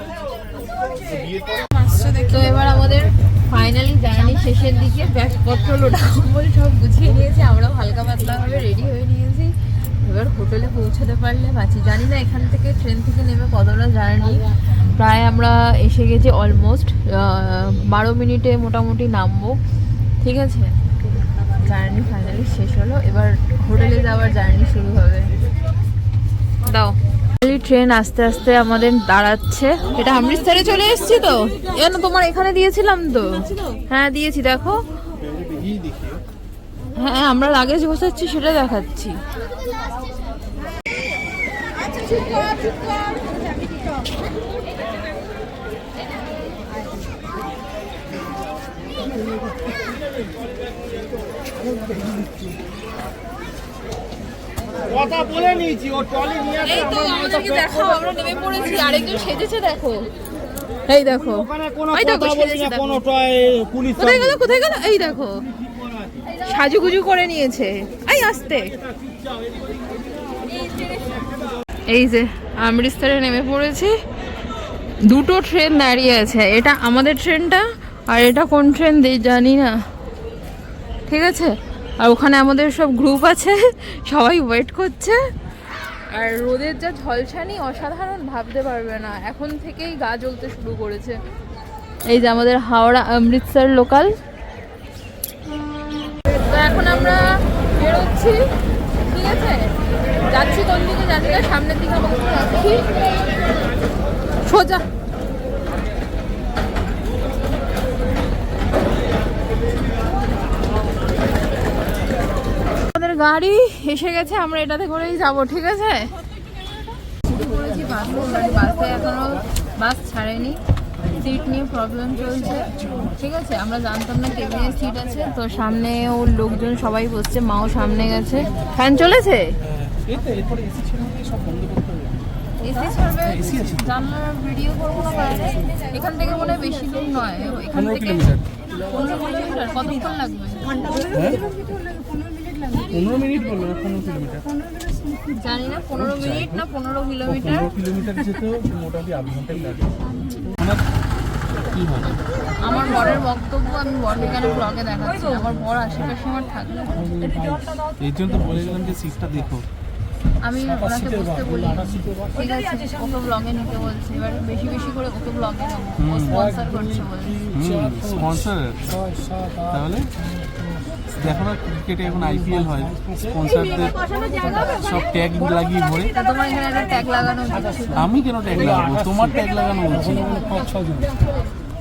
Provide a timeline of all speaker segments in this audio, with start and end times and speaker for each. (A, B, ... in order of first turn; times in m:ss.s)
0:01.0-0:01.6 A
0:01.8-0:02.4 B
0:02.2-0:19.6 C
0:20.2-0:20.8 C
0:21.5-0:25.3 C
0:26.6-0:34.9 C
0:35.4-0:36.2 A
0:37.0-0:39.2 C
0:41.8-0:43.9 B
0:55.0-0:56.5 B
0:56.6-1:00.1 C
1:00.9-1:03.1 C
1:03.2-1:03.9 B
1:04.0-1:05.4 C
1:06.3-1:08.7 C
1:11.9-1:13.9 C
1:15.1-1:19.8 C
1:21.1-1:25.2 C
1:26.1-1:31.2 C
1:32.1-1:34.1 C
1:36.4-1:38.4 C
1:39.0-1:39.7 C
1:40.3-1:42.9 C
1:44.4-1:44.8 C
1:52.9-1:56.1 C
1:57.3-2:00.6 C
2:01.1-2:09.6 C
2:09.6-2:12.2 A
2:12.6-2:20.8 C
2:13.2-2:14.0 A
2:17.7-2:18.5 A
2:20.7-2:22.9 B
2:21.1-2:21.5 A
2:22.9-2:24.5 A
2:24.7-2:25.4 B
2:25.3-2:27.7 C
2:26.0-2:26.7 A
2:27.3-2:30.8 A
2:31.7-2:32.2 A
2:32.6-2:37.1 C
2:38.0-2:39.7 A
2:40.4-2:47.4 C
2:46.0-2:46.4 A
2:47.5-2:49.0 A
2:49.7-2:50.1 A
2:51.2-2:54.0 A
2:54.3-2:54.6 B
2:54.6-2:56.1 A
2:56.1-2:58.1 C
2:57.9-3:00.6 A
3:00.1-3:00.9 C